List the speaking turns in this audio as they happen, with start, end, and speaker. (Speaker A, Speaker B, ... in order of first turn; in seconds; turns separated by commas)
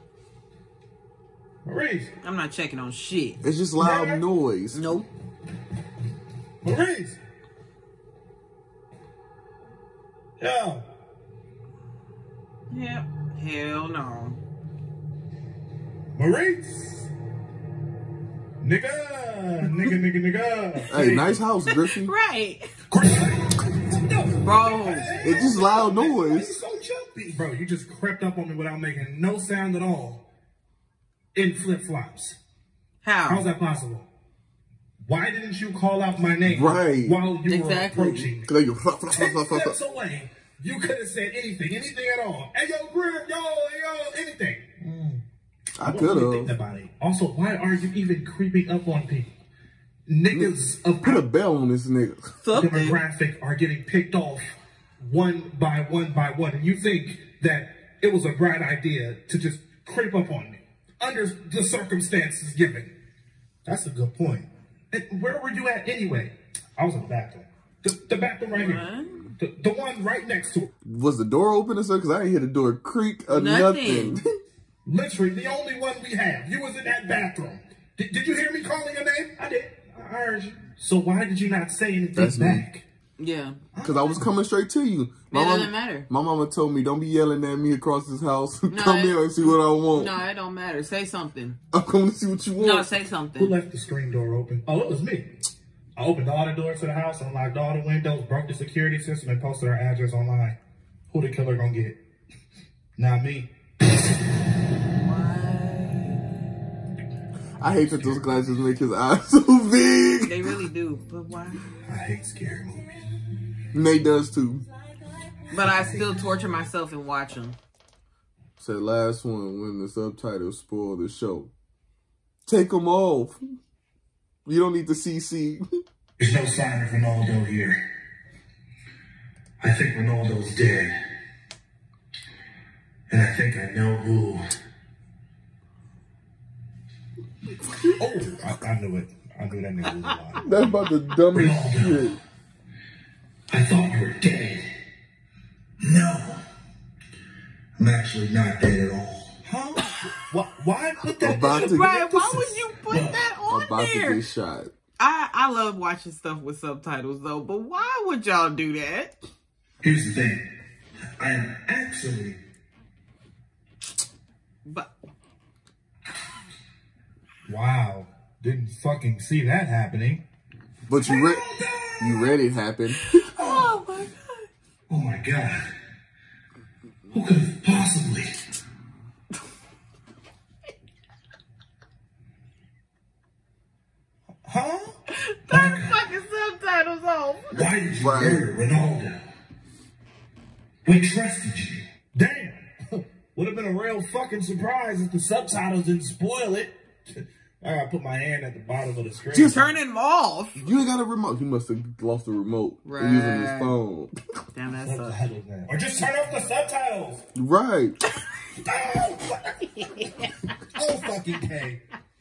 Speaker A: 1.6-2.1, Speaker B: 2.2-3.4, Speaker C: 3.4-4.8, Speaker A: 3.8-4.2, Speaker B: 4.7-5.1, Speaker A: 6.6-7.2, Speaker A: 10.4-10.8, Speaker B: 12.7-14.4, Speaker A: 16.2-17.1, Speaker A: 18.6-20.9, Speaker C: 20.9-22.1, Speaker B: 20.9-22.7, Speaker A: 22.9-30.3, Speaker B: 24.4-25.2, Speaker C: 25.2-26.6, Speaker A: 31.4-32.4, Speaker B: 33.0-33.5, Speaker A: 33.3-34.1, Speaker A: 35.0-38.5, Speaker C: 36.5-37.2, Speaker B: 37.5-38.3, Speaker C: 38.5-39.8, Speaker A: 39.1-45.2, Speaker C: 45.8-46.5, Speaker A: 45.8-49.4, Speaker A: 50.1-51.3, Speaker C: 50.3-52.3, Speaker B: 52.4-53.0, Speaker A: 52.5-54.5, Speaker A: 55.0-62.9, Speaker A: 63.6-68.9, Speaker B: 68.5-69.3, Speaker A: 69.4-70.7, Speaker C: 70.8-74.2, Speaker B: 73.3-74.2, Speaker A: 74.9-82.8, Speaker C: 82.2-82.7, Speaker B: 83.2-83.6, Speaker A: 83.7-84.3, Speaker C: 83.8-90.2, Speaker B: 85.3-86.1, Speaker B: 88.7-91.6, Speaker C: 91.7-92.9, Speaker B: 92.6-93.6, Speaker A: 93.4-95.3, Speaker A: 96.0-100.6, Speaker A: 101.1-102.0, Speaker A: 103.0-104.2, Speaker B: 105.0-106.3, Speaker C: 107.6-110.5, Speaker A: 107.6-108.6, Speaker B: 110.2-111.6, Speaker A: 111.8-113.3, Speaker C: 113.7-114.7, Speaker B: 115.5-117.6, Speaker A: 115.5-116.7, Speaker C: 118.6-121.5, Speaker C: 122.5-123.4, Speaker C: 124.5-125.6, Speaker A: 126.2-127.8, Speaker A: 129.6-131.0, Speaker A: 133.1-134.4, Speaker A: 138.0-140.8, Speaker C: 140.4-142.2, Speaker A: 141.3-142.2, Speaker A: 143.5-144.7, Speaker A: 145.8-146.4, Speaker A: 147.8-153.2, Speaker C: 151.2-152.0, Speaker B: 151.3-154.2, Speaker C: 153.5-154.7, Speaker B: 155.0-159.2, Speaker A: 159.8-160.5, Speaker A: 161.2-162.4, Speaker B: 164.7-164.9, Speaker A: 167.5-170.2, Speaker C: 170.9-171.5, Speaker A: 171.0-172.4, Speaker C: 172.0-173.0, Speaker B: 172.9-174.5, Speaker A: 173.4-173.8, Speaker A: 174.9-175.7, Speaker A: 177.1-178.3, Speaker A: 184.4-184.9, Speaker B: 185.1-187.6, Speaker A: 185.5-186.0, Speaker A: 187.5-189.2, Speaker C: 188.0-188.5, Speaker A: 190.8-199.8, Speaker B: 199.3-200.6, Speaker C: 200.6-204.2, Speaker B: 202.8-203.8, Speaker B: 204.5-205.2, Speaker A: 204.8-207.2, Speaker C: 207.4-208.0, Speaker A: 208.6-210.0, Speaker B: 209.8-210.3, Speaker A: 210.8-211.8